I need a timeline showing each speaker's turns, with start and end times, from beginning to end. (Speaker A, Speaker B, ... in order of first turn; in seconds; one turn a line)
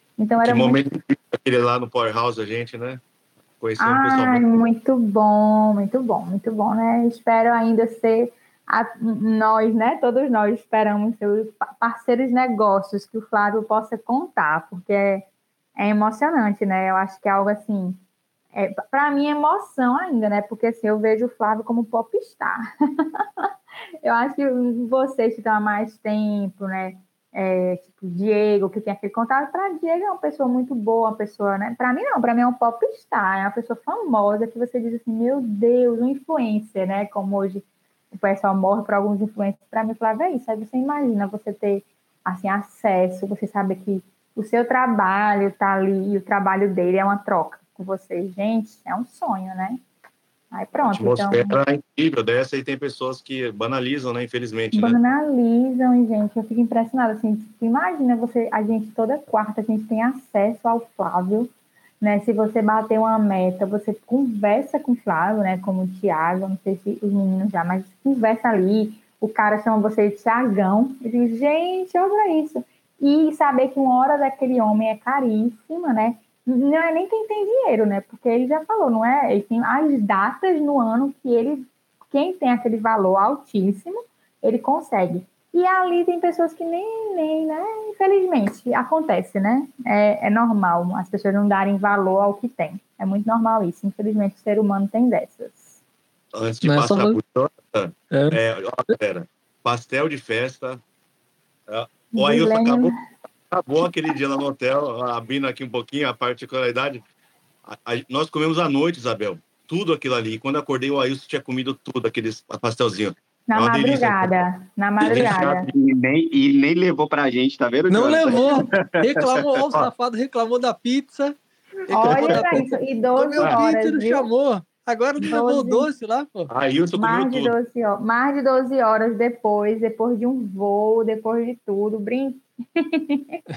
Speaker A: 0.2-0.8
Speaker B: 0.4-3.0
Speaker B: 3.6-4.5
Speaker A: 3.8-15.3
Speaker A: 15.8-18.0
Speaker A: 18.5-23.5
Speaker A: 24.0-49.8
Speaker A: 50.5-51.6
Speaker B: 50.9-55.0
Speaker A: 54.7-95.8
Speaker B: 96.3-100.8
Speaker C: 96.6-97.2
Speaker C: 98.1-98.4
Speaker B: 101.7-102.9
Speaker A: 102.1-103.0
Speaker B: 103.5-107.0
Speaker B: 107.6-114.4
Speaker A: 113.5-115.7
Speaker B: 115.0-115.7
Speaker D: 115.1-118.7
Speaker C: 117.9-121.3
Speaker B: 118.6-119.9
Speaker C: 121.9-126.5
Speaker A: 121.9-124.3
Speaker B: 122.0-122.6
Speaker A: 125.2-125.9
Speaker B: 126.5-127.5
Speaker A: 127.0-133.4